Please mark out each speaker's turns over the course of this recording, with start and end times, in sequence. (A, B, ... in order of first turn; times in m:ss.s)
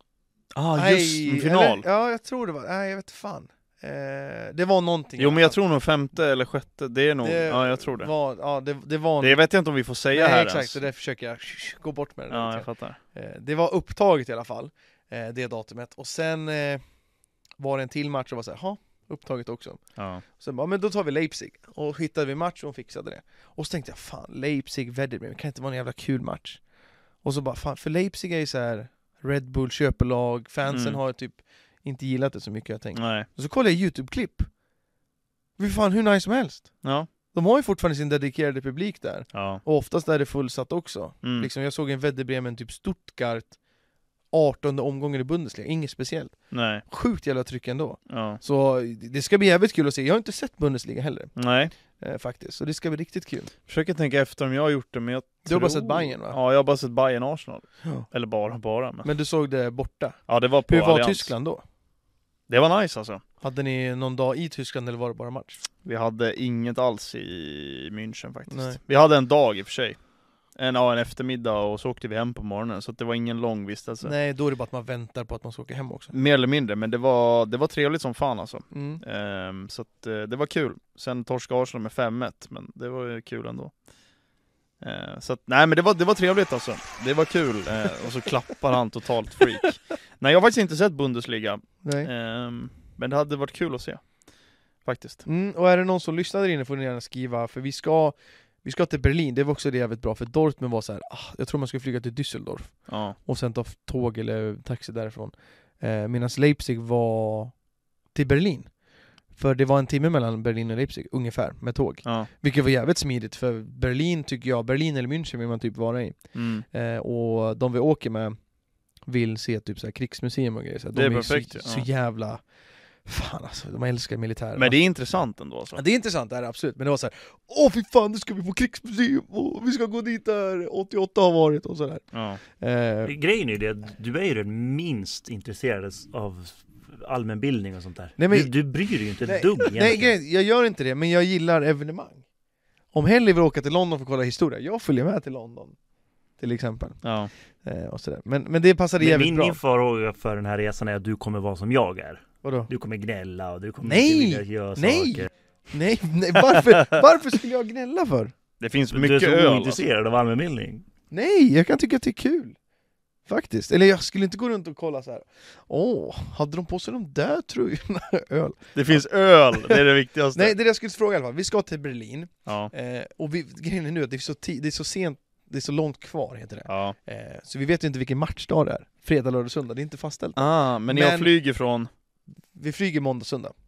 0:00.5-0:01.8 A
0:00.7-0:05.6 B
0:05.2-0:08.1 A
0:07.2-0:09.4 B
0:09.2-0:10.8 A
0:10.1-0:16.8 B
0:12.3-0:13.0 A
0:17.6-0:26.6 B
0:20.0-0:20.2 A
0:27.2-0:34.5 B
0:30.7-0:31.0 A
0:32.9-0:33.3 A
0:35.6-0:43.6 B
0:36.8-0:37.1 A
0:39.3-0:39.6 A
0:41.2-0:41.5 A
0:44.3-0:51.4 B
0:46.5-0:46.8 A
0:48.1-0:48.4 A
0:51.4-0:51.7 A
0:51.9-0:53.5 B
0:53.7-0:59.1 A
0:55.4-0:56.4 B
0:59.0-1:01.6 B
1:00.3-1:01.3 A
1:02.5-1:03.2 A
1:03.4-1:05.6 B
1:05.8-1:10.0 A
1:08.5-1:08.8 B
1:10.5-1:14.1 A
1:14.0-1:16.1 B
1:16.1-1:23.7 A
1:18.7-1:19.0 B
1:24.8-1:34.1 A
1:31.8-1:32.1 B
1:34.8-1:35.2 A
1:35.2-1:47.5 B
1:42.9-1:43.2 A
1:48.1-1:48.7 B
1:49.3-1:58.4 B
1:56.3-1:56.6 A
1:59.0-2:02.4 B
2:00.9-2:01.8 A
2:03.0-2:04.8 B
2:04.6-2:05.8 A
2:05.7-2:13.1 B
2:12.1-2:12.4 A
2:13.0-2:20.1 C
2:18.2-2:18.5 B
2:19.2-2:22.2 B
2:22.9-2:25.8 B
2:26.4-2:27.0 B
2:27.0-2:27.3 A
2:27.6-2:29.6 B
2:29.0-2:35.3 C
2:32.4-2:32.7 B
2:33.8-2:38.3 B
2:38.6-2:39.8 A
2:38.9-2:40.8 C
2:41.1-2:42.6 B
2:43.3-2:49.8 B
2:48.7-2:50.5 A
2:50.3-3:01.3 B
2:52.4-2:52.7 A
2:56.7-2:57.0 A
3:00.4-3:01.9 A
3:02.5-3:03.5 B